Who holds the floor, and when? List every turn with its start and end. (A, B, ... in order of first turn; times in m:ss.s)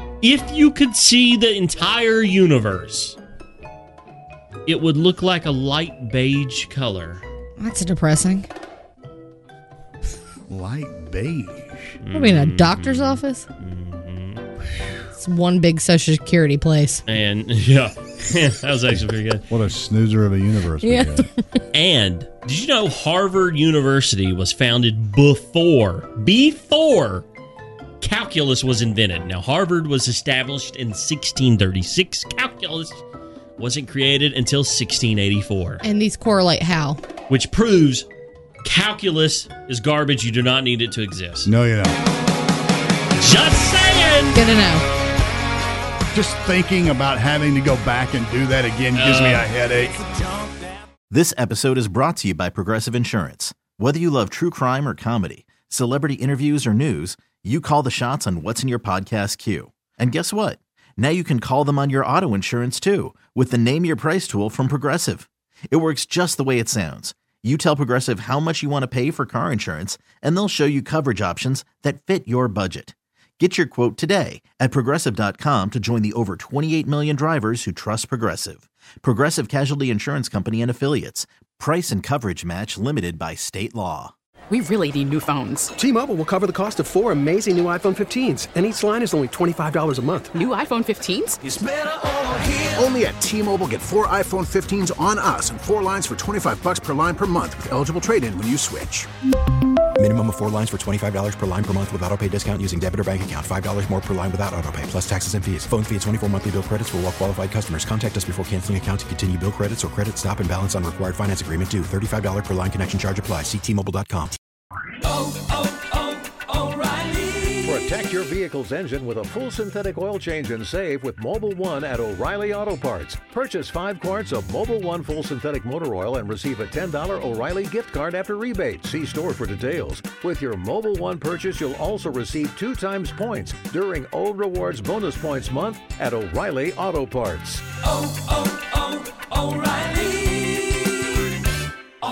0:00.2-0:03.2 A
0:04.6-0:07.2 A
0:07.6-0:08.5 B
0:10.5-0:12.0 C
0:12.0-0:14.4 A
0:12.1-0:13.4 B
0:15.2-0:17.0 B
0:17.1-0:19.4 A
0:19.5-0:21.3 C
0:20.8-0:21.6 B
0:21.7-0:27.2 A
0:28.0-0:33.0 A
0:33.6-0:35.8 A
0:35.8-0:37.0 B
0:37.3-0:38.1 A
0:38.6-0:41.5 A
0:41.4-0:42.0 C
0:43.2-0:44.4 A
0:44.3-0:44.9 B
0:46.1-0:50.0 C
0:48.9-0:49.5 A
0:51.1-1:24.1 D
1:24.5-1:25.7 E
1:25.8-1:30.3 F
1:30.3-1:31.4 E
1:31.4-1:39.1 G
1:40.0-1:54.4 H
1:57.6-2:17.6 I